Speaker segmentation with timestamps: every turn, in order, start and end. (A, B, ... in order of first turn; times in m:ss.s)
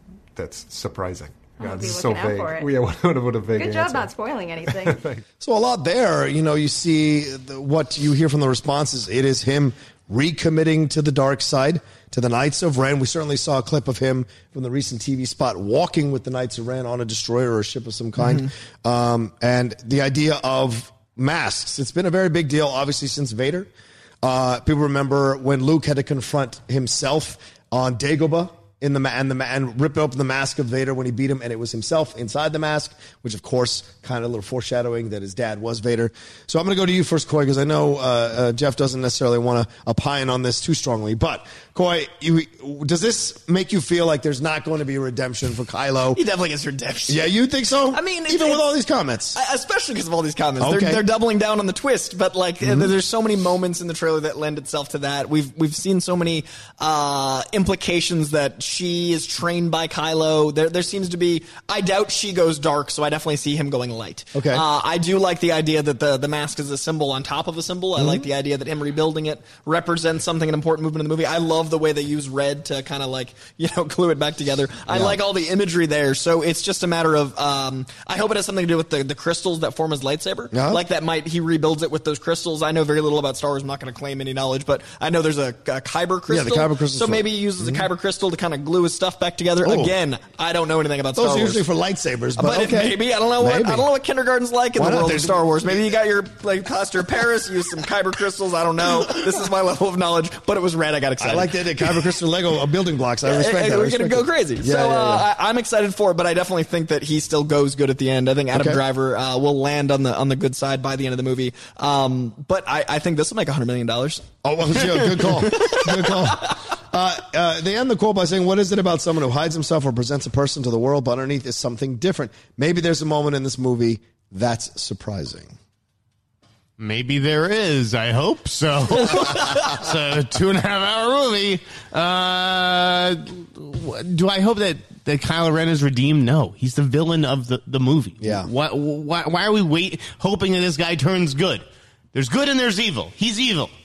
0:00.4-0:04.1 A
0:01.6-0:02.8 B
0:03.4-0:05.1 B
0:04.6-0:05.2 A
0:05.4-0:23.7 C
0:24.2-0:46.2 C
0:46.1-0:47.3 D
0:47.1-0:49.4 C
0:47.9-0:48.6 D
0:49.3-1:31.6 D
0:50.6-0:51.0 C
0:52.6-0:52.9 C
1:04.3-1:04.6 C
1:08.0-1:08.2 C
1:14.9-1:15.2 C
1:20.5-1:20.8 C
1:26.3-1:27.8 C
1:29.6-1:29.9 C
1:31.2-1:33.9 C
1:32.4-1:42.0 D
1:34.8-1:35.9 C
1:41.2-1:45.2 C
1:43.2-1:56.4 D
1:48.5-1:48.8 C
1:54.4-2:05.5 C
2:06.8-2:23.7 E
2:18.2-2:18.5 C